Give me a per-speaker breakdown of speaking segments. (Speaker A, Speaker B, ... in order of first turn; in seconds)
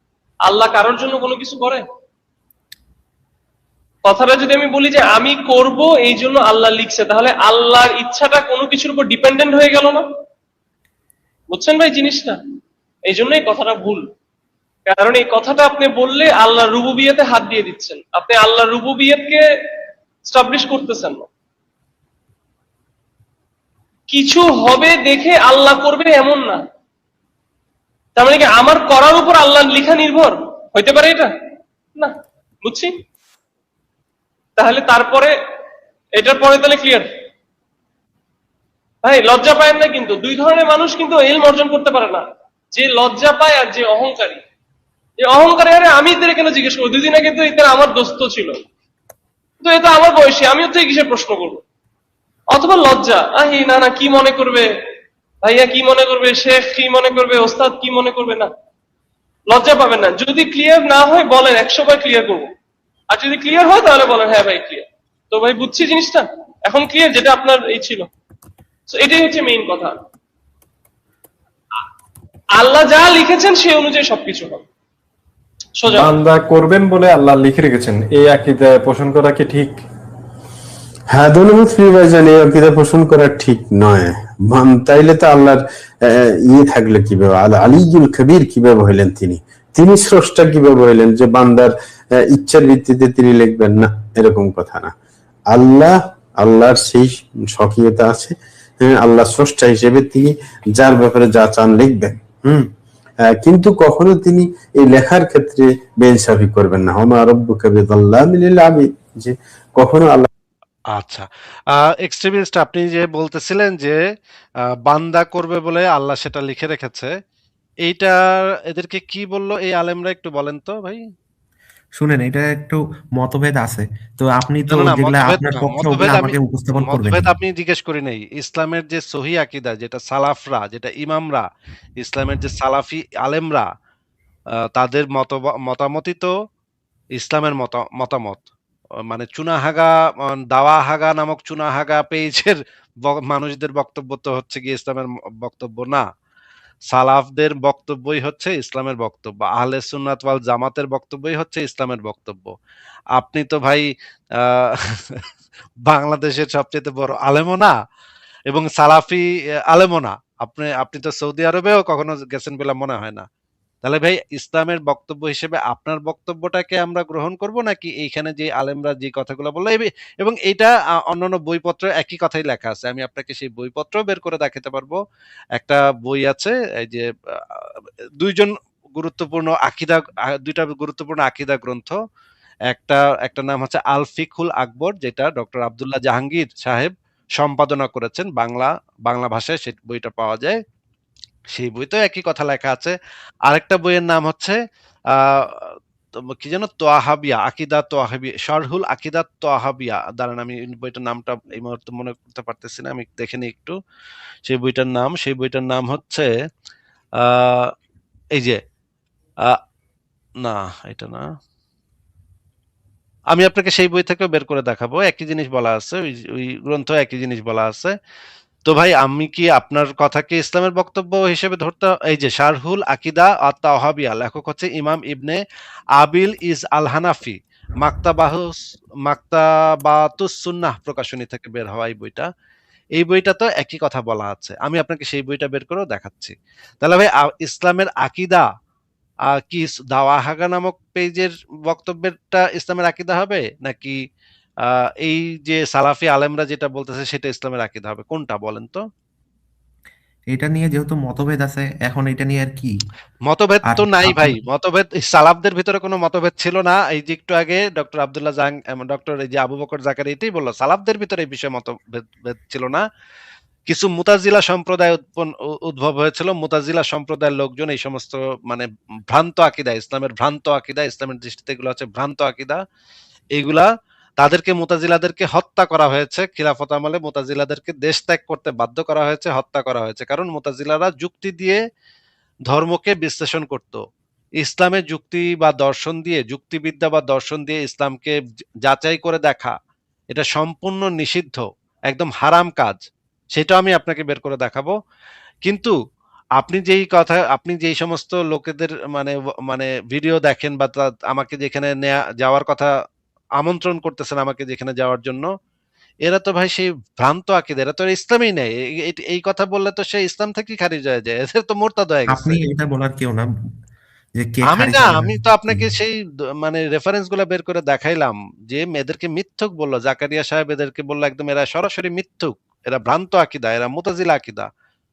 Speaker A: 0.4-1.8, 4.0-10.1, 11.5-12.4, 13.1-14.1, 14.9-19.4, 20.3-21.3, 24.1-26.6, 28.1-31.3, 32.0-33.0, 34.6-35.3, 36.2-37.1, 39.0-44.4, 45.2-48.6, 49.6-51.6, 52.5-54.7, 55.4-58.5, 59.5-62.5, 63.1-68.1, 68.9-70.0, 72.5-74.6, 75.8-76.1
Speaker B: 75.9-79.8
Speaker C: 81.1-94.9, 95.5-102.7, 103.2-110.3
Speaker D: 110.9-114.0, 114.8-117.1, 117.8-121.0, 124.7-131.4, 132.0-133.7, 134.7-136.3, 137.2-138.5, 139.1-146.0, 146.9-152.5, 153.2-155.2, 155.8-157.7, 158.5-163.3, 163.8-175.0, 175.6-182.0, 182.7-190.6, 191.5-192.9, 193.5-194.6, 195.1-195.7, 196.3-203.8, 204.4-206.3, 207.2-207.7, 208.3-208.6, 210.4-211.3, 213.3-217.9, 218.7-225.4, 226.0-232.3, 233.0-238.5, 239.4-244.0, 244.6-248.8, 253.3-262.8, 263.7-272.6, 273.3-273.7, 274.2-281.6, 282.5-283.8, 284.4-289.6, 290.1-294.7, 295.4-295.7, 296.4-302.7, 303.4-305.3, 306.1-312.4, 314.5-324.5
Speaker E: 122.0-127.3, 250.3-252.7, 253.7-254.4, 312.1-313.5, 314.2-315.7